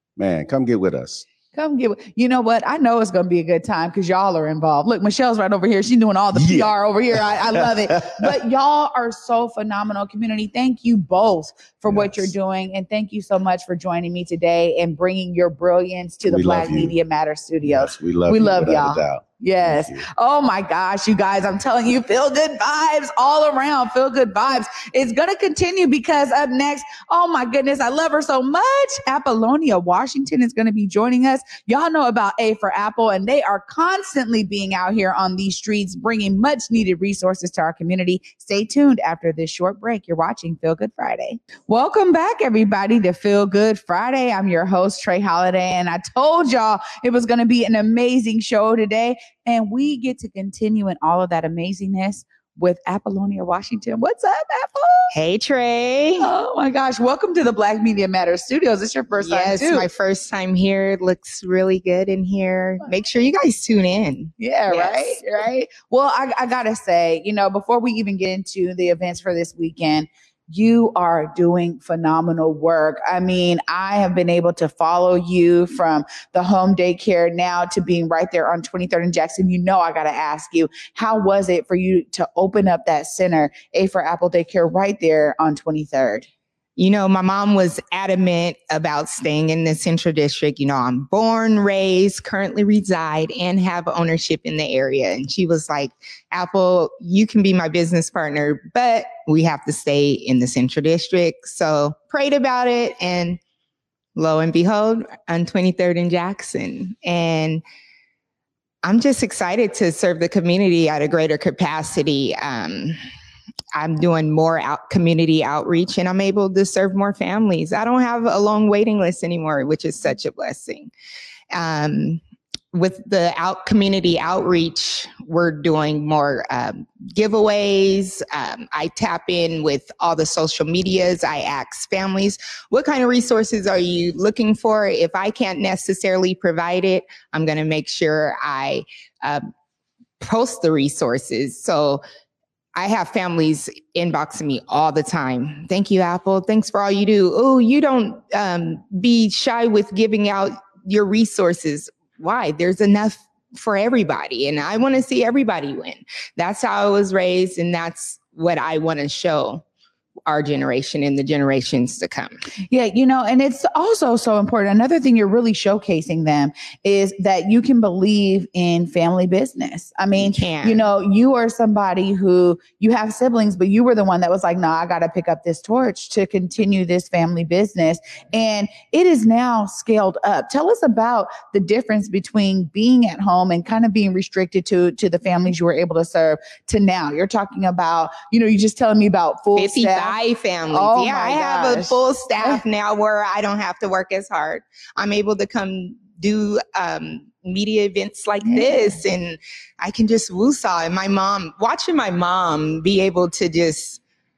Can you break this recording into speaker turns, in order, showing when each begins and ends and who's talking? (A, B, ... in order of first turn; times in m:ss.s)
0:00.2-0:01.2 A
0:01.6-0:55.1 B
0:06.3-0:06.7 A
0:07.9-0:08.3 A
0:11.9-0:12.3 A
0:16.3-0:17.0 A
0:17.7-0:20.0 A
0:55.1-0:56.3 C
0:56.2-0:59.9 B
0:59.2-1:05.2 C
1:04.4-1:26.3 B
1:26.8-1:43.4 C
1:44.2-1:47.6 C
1:48.8-1:53.0 C
1:53.7-2:00.9 C
2:01.5-2:02.2 C
2:02.7-2:19.5 C
2:20.2-2:22.0 C
2:22.8-2:39.6 C
2:40.3-2:42.4 C
2:42.7-3:10.2 B
2:50.2-2:50.8 C
3:09.6-3:24.0 C
3:10.7-3:12.6 B
3:18.4-3:19.0 B